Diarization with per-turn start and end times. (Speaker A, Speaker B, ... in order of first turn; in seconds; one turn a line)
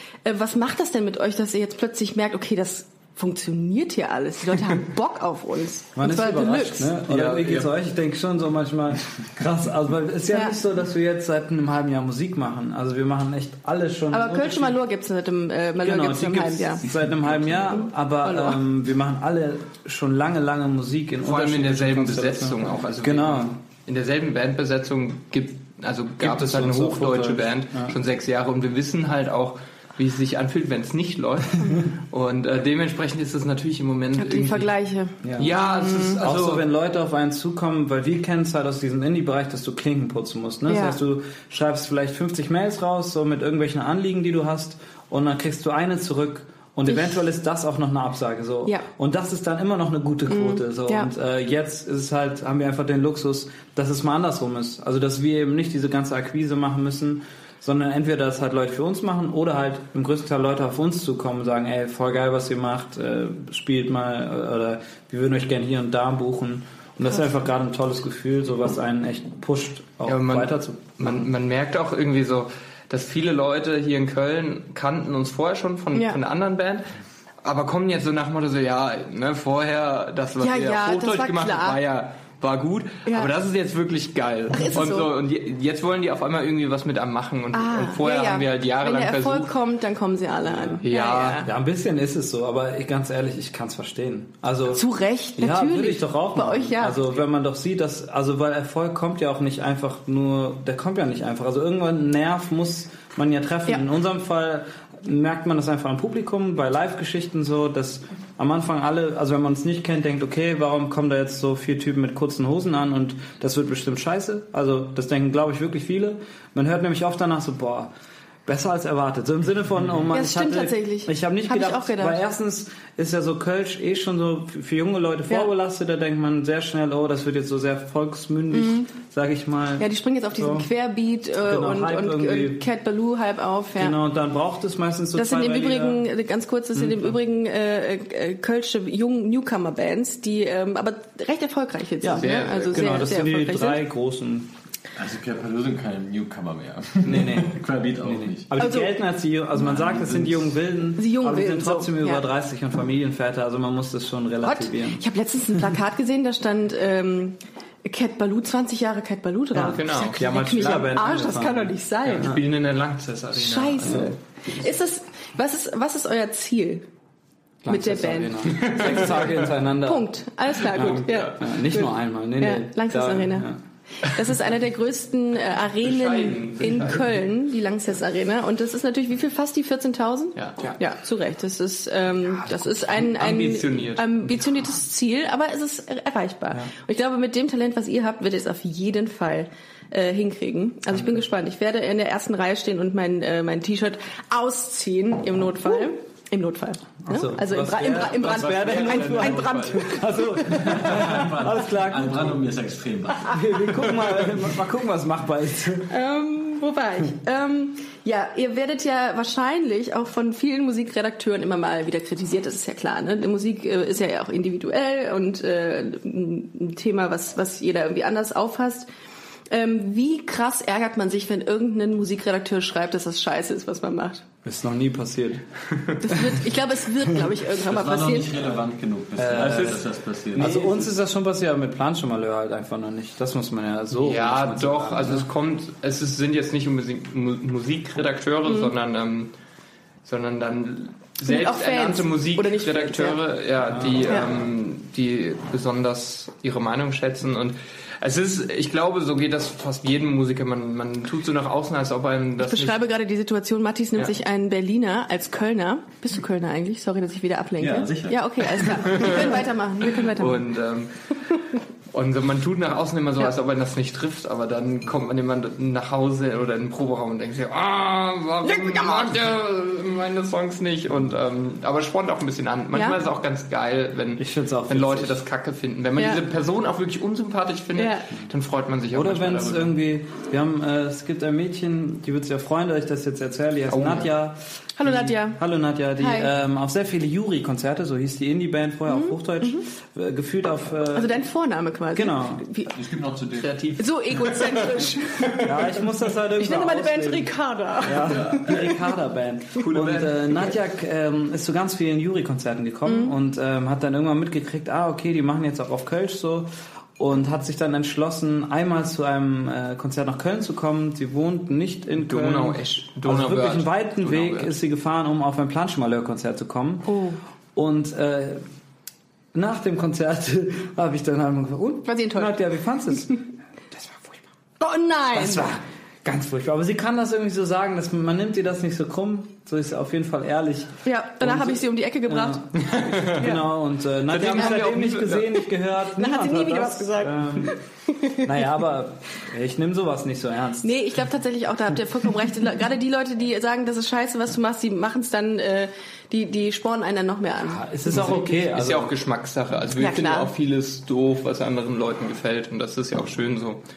Speaker A: 0.2-6.9
Speaker B: 6.0-14.8
Speaker C: 7.1-7.7
Speaker A: 10.3-10.6
Speaker A: 14.1-16.9
Speaker B: 15.8-23.6
Speaker D: 16.9-17.9
Speaker A: 17.7-18.6
Speaker C: 21.2-34.7
Speaker B: 26.2-27.9
Speaker A: 34.2-36.2
Speaker B: 35.2-35.5
Speaker C: 35.4-36.6
Speaker B: 36.2-71.3
Speaker A: 40.7-41.0
Speaker A: 46.9-47.2
Speaker A: 50.3-51.1
Speaker C: 70.0-76.9
Speaker A: 75.9-76.2
Speaker C: 77.4-89.5
Speaker A: 80.4-81.8
Speaker A: 84.5-85.1
Speaker A: 87.5-91.5
Speaker B: 90.5-90.8
Speaker C: 90.8-91.4
Speaker B: 91.4-94.8
Speaker A: 94.7-97.2
Speaker B: 95.4-117.9
Speaker B: 118.5-130.7
Speaker A: 120.1-122.2
Speaker A: 128.5-128.9
Speaker A: 129.8-134.0
Speaker B: 131.4-132.6
Speaker B: 133.8-136.1
Speaker A: 135.1-143.8
Speaker B: 136.7-137.2
Speaker B: 142.0-144.5
Speaker C: 142.2-143.0
Speaker D: 144.9-148.6
Speaker B: 147.0-155.0
Speaker A: 148.6-148.9
Speaker D: 149.6-150.6
Speaker A: 150.9-152.2
Speaker A: 154.4-162.3
Speaker B: 159.5-162.4
Speaker C: 159.6-160.8
Speaker C: 162.0-164.2
Speaker A: 163.3-166.9
Speaker B: 163.8-164.1
Speaker C: 167.6-169.5
Speaker A: 167.7-173.5
Speaker B: 167.7-173.6
Speaker A: 174.0-200.9
Speaker C: 175.8-177.2
Speaker C: 180.3-180.8
Speaker B: 182.4-183.0
Speaker C: 182.9-184.2
Speaker B: 197.1-202.5
Speaker D: 198.1-199.9
Speaker D: 200.4-203.9
Speaker B: 203.2-205.9
Speaker A: 205.9-218.9
Speaker A: 219.5-224.2
Speaker B: 224.4-225.4
Speaker A: 226.0-228.4
Speaker B: 226.1-226.4
Speaker D: 227.6-230.9
Speaker B: 229.2-235.3
Speaker C: 229.3-229.8
Speaker C: 230.3-230.7
Speaker C: 233.9-239.3
Speaker A: 238.4-238.7
Speaker C: 240.0-252.8
Speaker A: 241.2-243.2
Speaker B: 243.7-244.2
Speaker A: 244.1-244.3
Speaker A: 252.4-260.4
Speaker D: 257.6-259.1
Speaker C: 258.9-259.3
Speaker C: 260.0-261.3
Speaker C: 261.9-279.7
Speaker A: 268.4-269.1
Speaker A: 272.7-273.0
Speaker B: 274.2-275.2
Speaker A: 276.0-276.2
Speaker A: 277.8-278.1
Speaker B: 278.9-291.1
Speaker C: 283.7-284.1
Speaker A: 284.8-285.4
Speaker A: 286.0-286.3
Speaker A: 288.9-289.6
Speaker A: 290.9-292.7
Speaker B: 291.9-292.4
Speaker D: 292.7-293.6
Speaker C: 293.4-295.7
Speaker A: 293.8-295.8
Speaker B: 295.4-316.9
Speaker A: 296.4-298.7
Speaker D: 298.0-298.7
Speaker C: 299.5-300.6
Speaker A: 302.9-303.1
Speaker C: 312.0-314.5
Speaker A: 316.9-317.2
Speaker B: 317.5-318.4
Speaker B: 319.3-324.2
Speaker A: 321.9-322.4
Speaker A: 322.9-323.2
Speaker A: 324.6-325.5
Speaker B: 325.1-337.6
Speaker A: 330.8-332.5
Speaker C: 332.6-333.2
Speaker A: 333.0-333.5
Speaker C: 334.1-335.4
Speaker A: 336.0-338.4
Speaker B: 338.2-341.0
Speaker A: 340.6-348.1
Speaker B: 347.4-348.9
Speaker C: 347.9-353.6
Speaker A: 349.8-350.3